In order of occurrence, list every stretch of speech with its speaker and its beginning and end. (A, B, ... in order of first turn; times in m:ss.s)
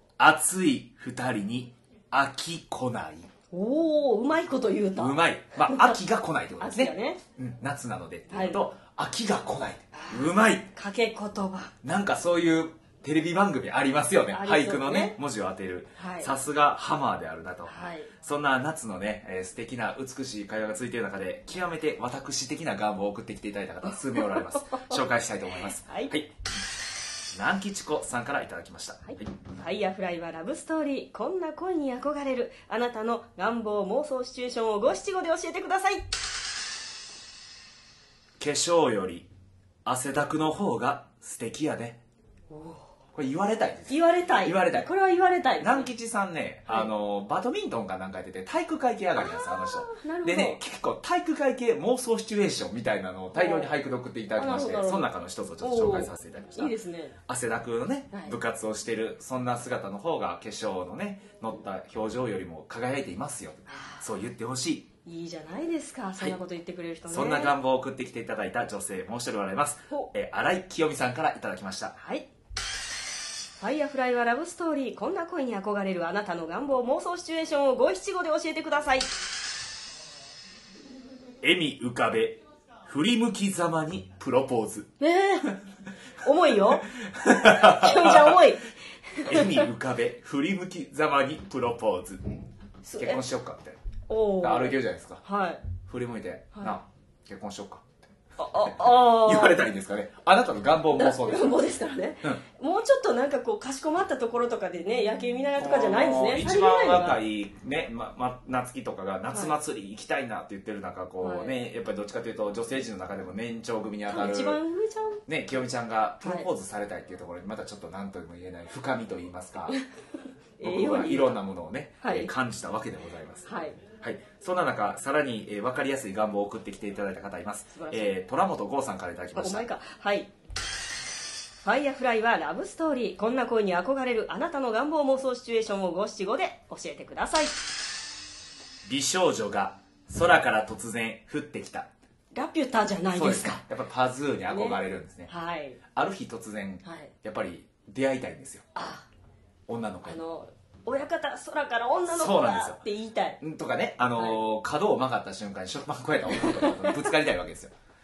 0:00.2-0:03.3 A
0:03.5-0:06.0 B
0:05.0-0:10.7 A
0:06.6-0:07.2 B
0:08.3-0:08.7 B
0:09.9-0:11.7 B
0:11.8-0:26.3 A
0:14.3-0:15.2 B
0:16.0-0:16.3 B
0:17.7-0:18.1 B
0:25.8-0:26.1 B
0:27.3-0:29.2 A
0:29.0-0:36.0 B
0:38.4-0:39.3 A
0:39.8-0:42.0 A
0:42.5-0:42.8 B
0:43.1-0:44.9 A
0:43.9-0:45.9 B
0:45.6-0:56.7 A
0:49.2-0:50.6 B
0:53.3-0:53.7 B
0:54.4-0:57.1 B
0:57.3-1:04.9 A
1:03.7-1:04.1 B
1:05.0-1:07.6 B
1:07.1-1:12.0 A
1:12.0-1:12.3 B
1:13.6-1:19.1 B
1:21.4-1:24.9 A
1:25.0-1:25.5 B
1:26.2-1:29.6 B
1:27.0-1:28.5 A
1:29.2-1:32.2 A
1:32.8-1:33.2 B
1:33.0-1:33.8 A
1:34.1-1:35.6 B
1:34.4-1:35.2 A
1:35.8-1:41.6 A
1:38.4-1:39.6 B
1:40.9-1:47.2 B
1:45.6-1:54.6 A
1:49.3-1:49.5 B
1:51.2-1:51.5 B
1:54.1-1:55.2 B
1:55.3-1:59.8 A
1:56.2-1:56.5 B
2:00.6-2:01.4 B
2:00.6-2:03.5 A
2:02.0-2:02.3 B
2:03.4-2:03.8 B
2:04.0-2:09.7 A
2:07.7-2:08.1 B
2:09.3-2:10.3 B
2:11.6-2:17.6 B
2:18.8-2:21.9 A
2:22.3-2:23.6 B
2:23.1-2:25.3 A
2:24.5-2:25.8 B
2:25.9-2:28.6 A
2:26.8-2:27.1 B
2:28.7-2:29.1 B
2:29.7-2:30.2 A
2:30.0-2:33.4 B
2:32.1-2:32.8 A
2:33.4-2:37.7 A
2:34.1-2:34.4 B
2:36.3-2:37.0 B